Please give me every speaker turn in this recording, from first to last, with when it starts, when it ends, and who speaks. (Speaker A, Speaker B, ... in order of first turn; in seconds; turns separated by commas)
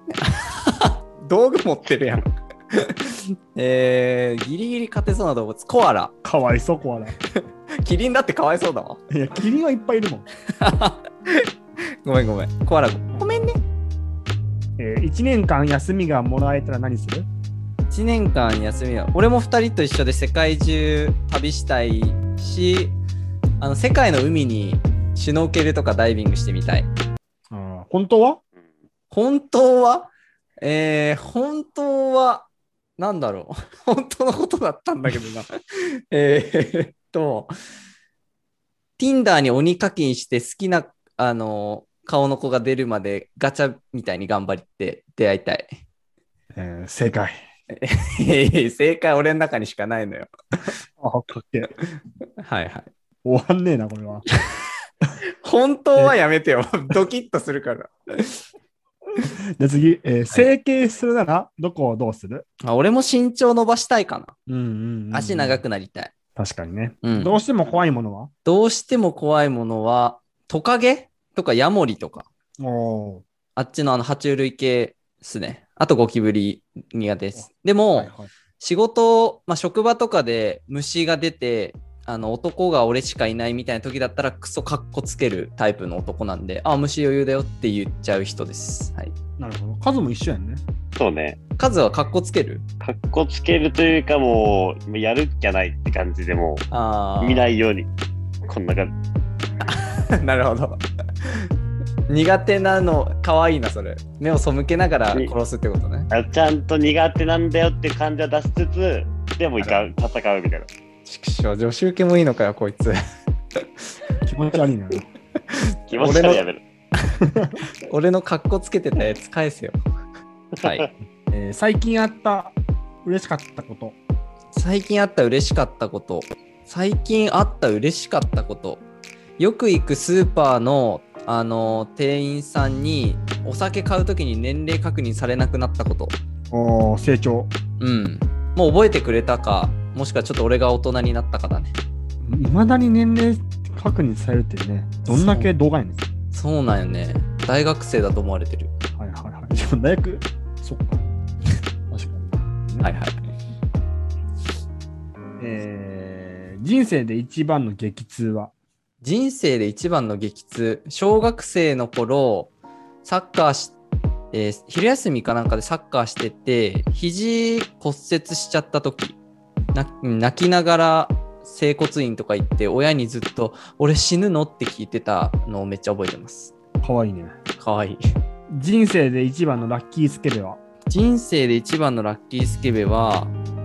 Speaker A: 0.2-6.1, Speaker B: 6.2-7.2, Speaker A: 7.3-9.0, Speaker B: 9.1-10.3, Speaker A: 10.5-11.5, Speaker A: 12.0-13.6, Speaker B: 14.8-17.3, Speaker A: 17.9-23.0, Speaker A: 23.6-26.9, Speaker B: 27.5-28.4, Speaker A: 29.1-30.1, Speaker A: 30.6-35.5, Speaker A: 36.1-37.5, Speaker A: 39.0-45.7, Speaker B: 46.5-47.4, Speaker A: 47.7-50.3, Speaker B: 51.0-51.7, Speaker A: 52.4-52.9, Speaker B: 53.2-54.2, Speaker A: 55.4-58.4, Speaker B: 59.2-62.5, Speaker A: 62.6-64.3, Speaker B: 64.5-65.6, Speaker A: 65.1-66.1, Speaker B: 66.3-68.3, Speaker A: 67.0-67.3, Speaker A: 68.5-72.3, Speaker B: 72.6-73.2, Speaker A: 73.5-89.1, Speaker B: 77.3-78.3, Speaker B: 89.4-90.6, Speaker C: 91.0-91.4, Speaker A: 91.6-92.6, Speaker C: 92.8-96.7, Speaker A: 96.7-97.4, Speaker C: 97.2-97.9, Speaker C: 98.5-98.9, Speaker A: 99.6-101.5, Speaker A: 102.1-106.1, Speaker C: 106.1-110.7, Speaker A: 109.6-109.8, Speaker A: 111.0-113.0, Speaker B: 114.2-115.1, Speaker A: 115.5-116.4, Speaker C: 115.9-116.6, Speaker B: 117.2-117.6, Speaker A: 117.9-119.8, Speaker C: 120.6-120.9, Speaker A: 120.6-120.9, Speaker B: 121.3-124.0, Speaker A: 124.5-128.8, Speaker A: 129.4-136.2, Speaker B: 136.5-137.5, Speaker A: 137.8-141.7, Speaker B: 142.2-146.0, Speaker A: 145.1-145.5, Speaker A: 146.3-148.7, Speaker B: 149.0-151.0, Speaker B: 151.9-152.9, Speaker A: 152.8-153.3, Speaker B: 155.4-158.5, Speaker A: 159.0-162.5, Speaker A: 163.0-163.7, Speaker A: 164.3-169.2, Speaker A: 169.7-176.5, Speaker B: 176.8-177.3, Speaker A: 177.6-178.0, Speaker B: 178.5-180.6, Speaker A: 180.9-183.3